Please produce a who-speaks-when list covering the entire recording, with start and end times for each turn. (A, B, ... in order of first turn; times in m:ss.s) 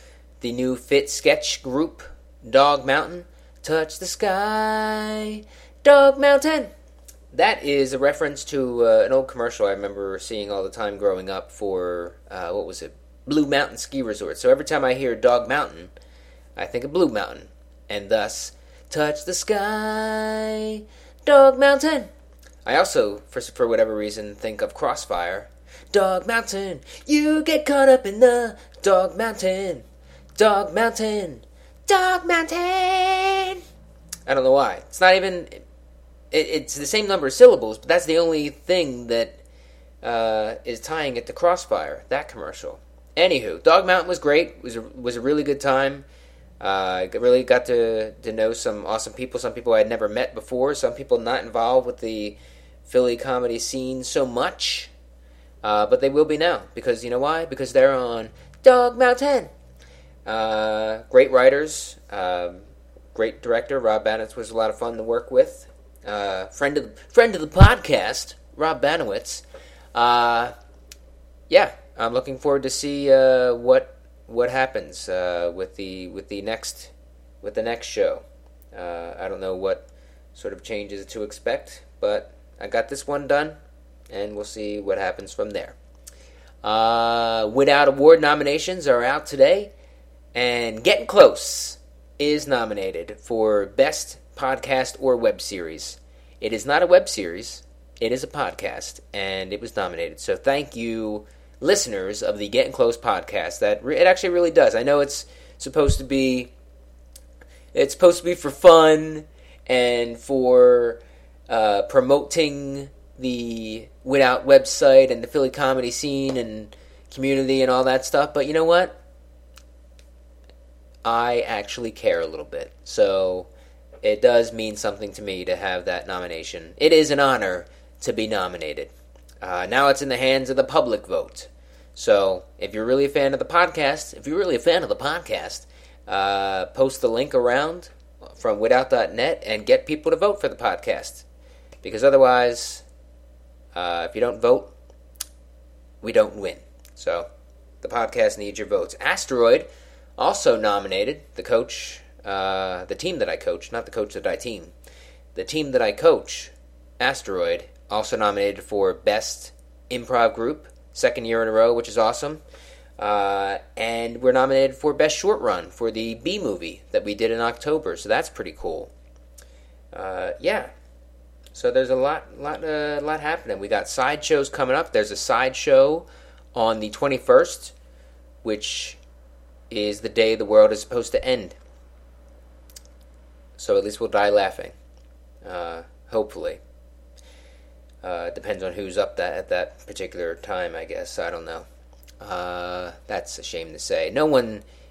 0:00.4-0:06.7 A
0:07.3-0:15.9 A
0:16.6-0:22.1 A
0:22.6-0:29.8 A
0:30.4-0:33.6 A
0:34.3-0:35.6 A
0:36.3-0:39.4 A
0:40.0-0:46.0 A
0:46.6-0:54.9 A
0:55.6-0:59.5 A
1:00.2-1:02.6 A
1:03.2-1:09.4 A
1:09.9-1:10.5 A
1:11.5-1:23.6 A
1:24.1-1:25.8 A
1:26.6-1:29.7 A
1:30.3-1:46.5 A
1:47.7-1:59.0 A
2:01.0-2:03.5 A
2:04.0-2:21.2 A
2:21.8-2:22.8 A
2:23.7-2:24.7 A
2:26.0-2:27.3 A
2:27.8-2:34.7 A
2:35.4-2:42.4 A
2:43.0-2:48.9 A
2:49.9-2:50.7 A
2:51.5-2:57.7 A
2:58.4-2:59.0 A
2:59.7-3:01.6 A
3:03.6-3:04.7 A
3:05.4-3:06.6 A
3:08.0-3:11.7 A
3:12.2-3:14.6 A